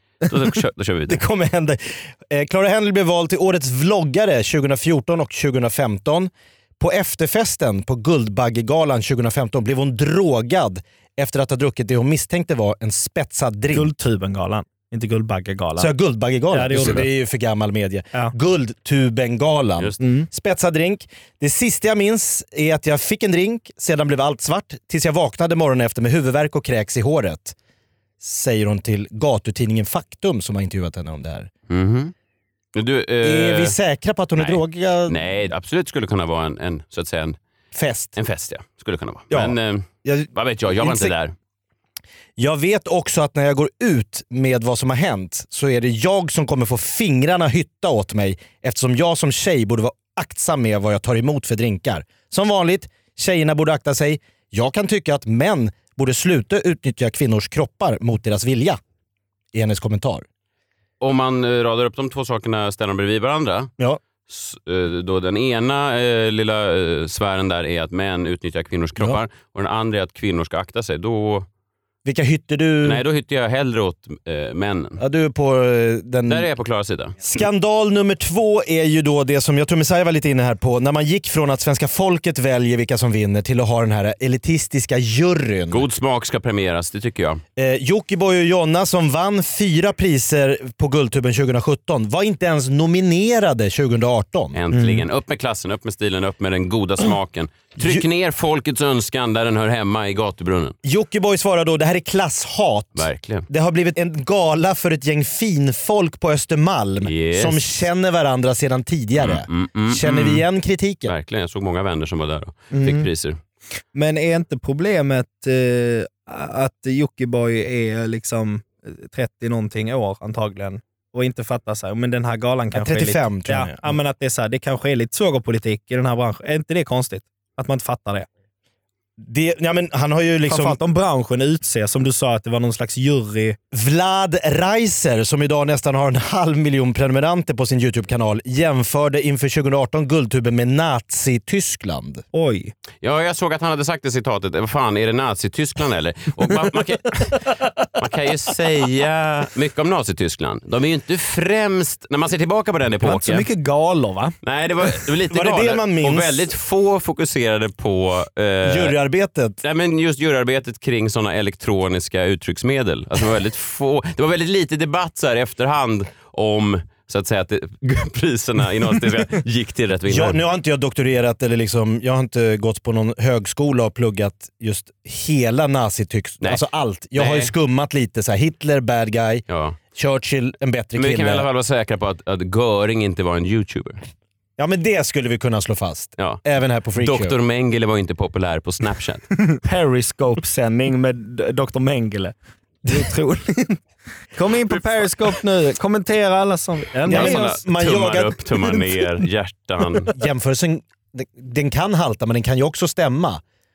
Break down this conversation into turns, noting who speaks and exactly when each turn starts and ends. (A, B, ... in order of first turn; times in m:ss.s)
0:00.2-0:01.2 A
0:01.1-0:13.9 B
0:13.7-0:15.9 C
0:15.8-0:27.6 B
0:16.5-0:17.0 C
0:20.0-0:20.3 C
0:28.2-0:31.5 B
0:31.7-0:32.1 A
0:32.8-0:33.8 A
0:33.2-0:35.2 B
0:34.4-0:37.4 A
0:37.7-0:38.2 B
0:38.2-0:41.3 A
0:39.3-0:41.1 B
0:42.4-0:58.8 B
0:59.5-1:00.2 B
1:01.0-1:03.7 A
1:04.3-1:11.5 A
1:12.0-1:13.0 B
1:12.8-1:15.0 A
1:15.0-1:16.5 B
1:16.3-1:17.2 A
1:17.2-1:25.9 B
1:25.7-1:27.4 A
1:27.6-1:34.6 B
1:34.5-1:40.8 A
1:34.7-1:35.0 C
1:40.8-1:51.1 B
1:43.0-1:43.5 A
1:47.0-1:47.6 A
1:49.2-1:50.4 A
1:51.1-1:53.4 A
1:52.7-1:53.1 C
1:53.9-2:08.3 C
2:02.7-2:04.0 B
2:09.2-2:10.8 B
2:10.5-2:13.6 C
2:13.7-2:22.2 B
2:22.3-2:22.7 C
2:23.0-2:33.4 A
2:33.0-2:34.3 C
2:34.4-2:39.0 A
2:35.3-2:36.5 B
2:38.6-2:39.6 B
2:39.6-2:50.4 A
2:50.1-3:01.5 B
2:57.2-2:57.5 A
2:59.5-2:59.8 A
3:01.0-3:04.0 A
3:04.6-3:07.4 B
3:07.0-3:09.3 A
3:09.6-3:12.3 C
3:12.9-3:13.8 C
3:14.4-3:17.5 C
3:17.1-3:18.4 B
3:17.1-3:20.1 A
3:20.1-3:23.4 B